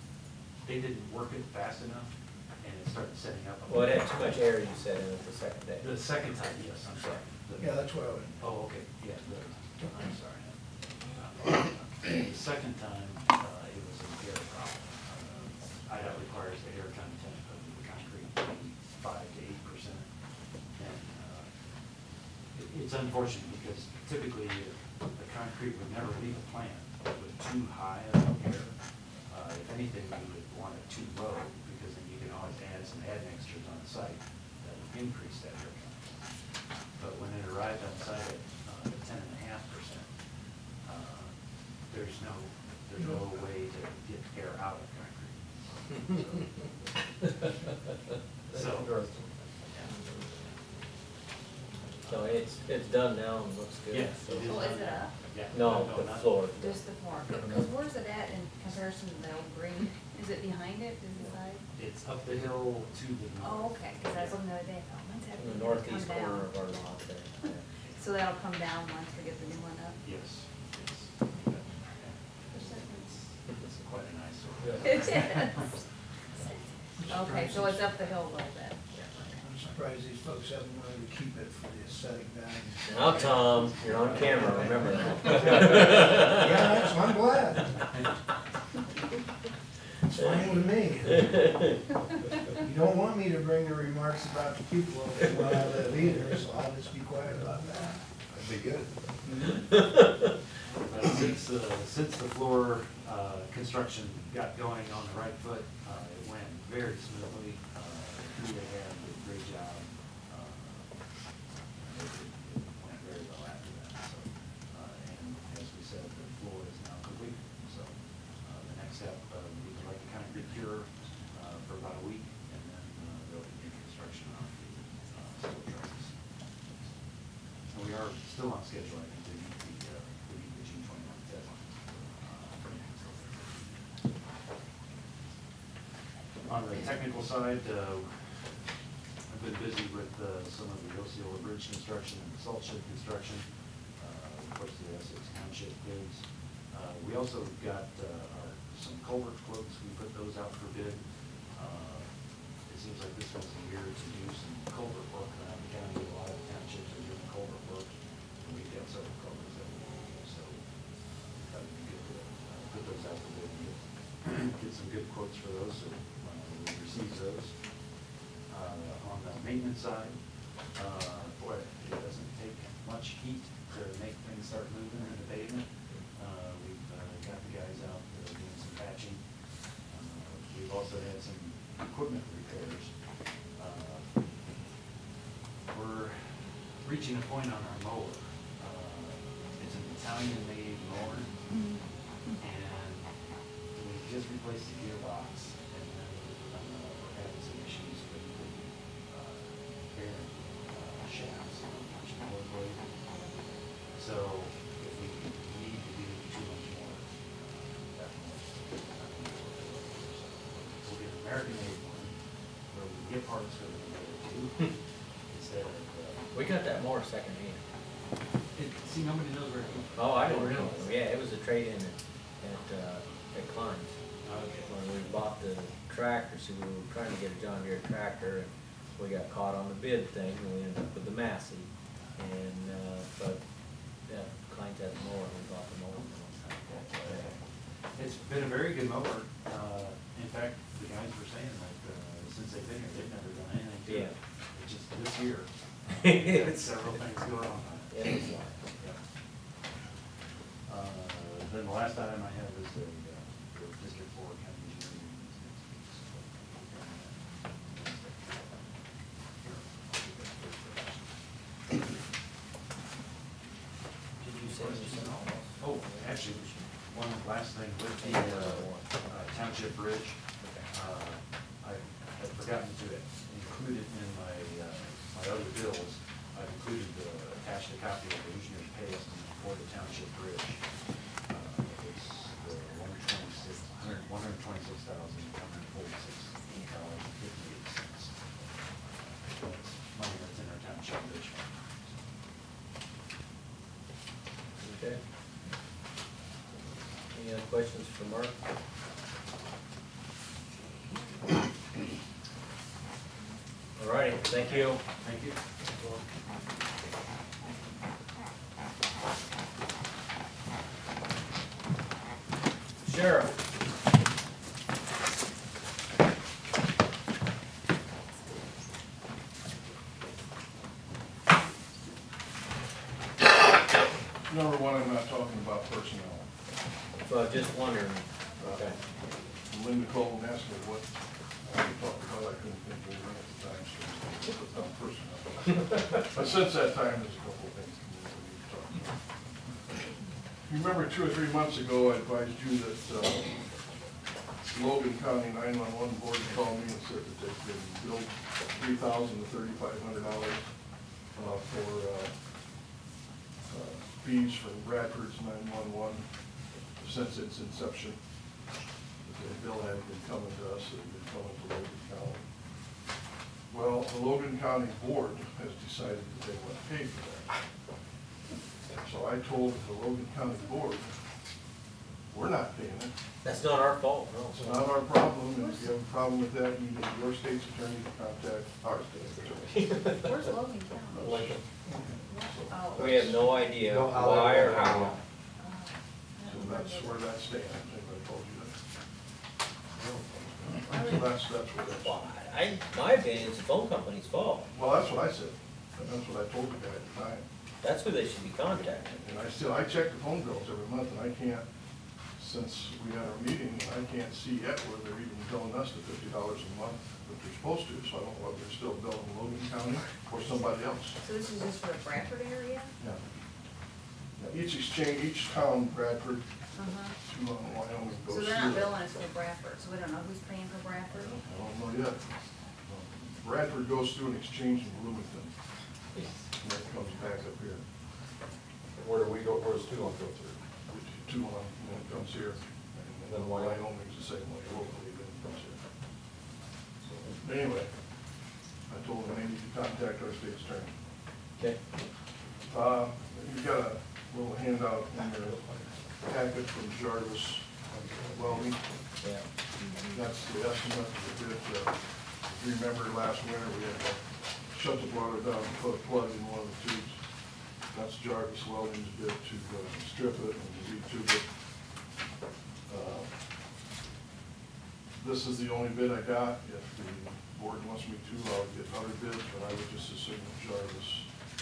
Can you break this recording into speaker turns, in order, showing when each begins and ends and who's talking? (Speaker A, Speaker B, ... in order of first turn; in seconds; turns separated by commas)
Speaker A: 0.6-4.2, Speaker B: 3.7-5.9, Speaker A: 5.8-20.1, Speaker C: 7.6-8.3, Speaker A: 20.7-21.5, Speaker A: 22.5-28.7, Speaker A: 29.3-36.1, Speaker A: 37.0-40.1, Speaker A: 40.8-45.4, Speaker D: 48.5-49.3, Speaker A: 48.5-49.0, Speaker A: 52.0-52.5, Speaker B: 52.1-54.6, Speaker A: 53.9-56.4, Speaker E: 54.4-55.1, Speaker B: 55.5-56.8, Speaker E: 56.6-61.6, Speaker D: 57.3-57.7, Speaker A: 61.7-64.4, Speaker E: 63.4-66.5, Speaker B: 65.3-67.6, Speaker E: 67.9-70.0, Speaker A: 70.0-75.8, Speaker E: 72.5-73.2, Speaker D: 74.6-75.0, Speaker E: 74.8-75.7, Speaker E: 77.1-79.2, Speaker C: 77.1-77.7, Speaker C: 79.4-83.4, Speaker B: 82.9-86.7, Speaker A: 83.8-85.1, Speaker C: 84.0-87.7, Speaker D: 85.3-85.7, Speaker C: 90.0-91.5, Speaker B: 91.2-91.7, Speaker C: 92.6-98.6, Speaker C: 99.2-99.8, Speaker B: 99.7-100.2, Speaker A: 100.9-111.0, Speaker A: 111.8-126.2, Speaker A: 127.7-134.1, Speaker A: 136.4-138.5, Speaker A: 139.3-143.4, Speaker A: 144.0-152.1, Speaker A: 152.6-160.6, Speaker A: 161.2-167.8, Speaker A: 168.5-179.2, Speaker A: 179.8-182.9, Speaker A: 183.5-184.1, Speaker A: 185.7-191.3, Speaker E: 191.5-191.8, Speaker A: 192.4-193.1, Speaker A: 193.7-203.0, Speaker A: 203.9-212.2, Speaker A: 212.7-216.3, Speaker B: 216.3-217.6, Speaker A: 218.5-220.9, Speaker B: 219.9-224.0, Speaker A: 224.2-224.7, Speaker B: 224.6-233.4, Speaker B: 234.0-237.3, Speaker A: 237.0-237.3, Speaker A: 237.9-249.0, Speaker B: 243.8-244.1, Speaker B: 246.0-246.7, Speaker B: 247.9-248.5, Speaker A: 250.7-258.6, Speaker A: 259.4-261.1, Speaker B: 264.2-266.7, Speaker A: 264.6-270.2, Speaker B: 268.0-268.9, Speaker B: 270.4-270.7, Speaker A: 270.7-280.6, Speaker A: 281.3-288.3, Speaker A: 288.8-292.1, Speaker B: 294.6-295.0, Speaker B: 297.1-298.3, Speaker B: 303.8-304.8, Speaker A: 304.8-306.0, Speaker B: 312.8-313.3, Speaker F: 324.2-326.3, Speaker B: 327.0-328.8, Speaker F: 328.4-328.7, Speaker F: 329.4-339.0, Speaker F: 340.4-343.7, Speaker F: 344.5-352.2, Speaker F: 353.5-358.0, Speaker F: 359.0-362.2, Speaker F: 363.5-367.4, Speaker F: 368.7-370.9, Speaker F: 372.1-372.9, Speaker B: 373.2-374.5, Speaker F: 374.3-379.8, Speaker E: 375.3-375.7, Speaker D: 379.5-380.1, Speaker E: 380.0-381.3, Speaker F: 380.9-381.4, Speaker D: 380.9-381.4, Speaker C: 381.7-381.9, Speaker E: 382.0-383.2, Speaker F: 382.1-383.2, Speaker B: 382.7-385.0, Speaker D: 383.6-385.0, Speaker E: 385.4-387.2, Speaker F: 386.2-388.6, Speaker F: 389.8-392.0, Speaker E: 390.7-391.1, Speaker B: 391.8-394.5, Speaker F: 394.5-397.3, Speaker B: 397.6-399.0, Speaker F: 398.9-401.4, Speaker F: 402.1-411.0, Speaker E: 411.0-412.7, Speaker F: 412.8-413.0, Speaker F: 414.1-416.3, Speaker E: 416.5-417.0, Speaker F: 417.0-418.8, Speaker E: 418.0-421.2, Speaker F: 421.0-422.1, Speaker E: 422.1-422.4, Speaker F: 422.6-425.3, Speaker D: 425.9-426.2, Speaker F: 426.4-427.7, Speaker D: 428.8-430.4, Speaker F: 430.7-435.7, Speaker D: 431.6-432.1, Speaker D: 433.1-433.6, Speaker F: 437.1-437.9, Speaker F: 438.7-440.8, Speaker F: 442.4-449.0, Speaker D: 445.2-445.8, Speaker D: 447.7-448.4, Speaker B: 449.0-449.2, Speaker E: 449.6-450.0, Speaker F: 449.9-461.3, Speaker F: 462.7-463.2, Speaker F: 465.0-471.1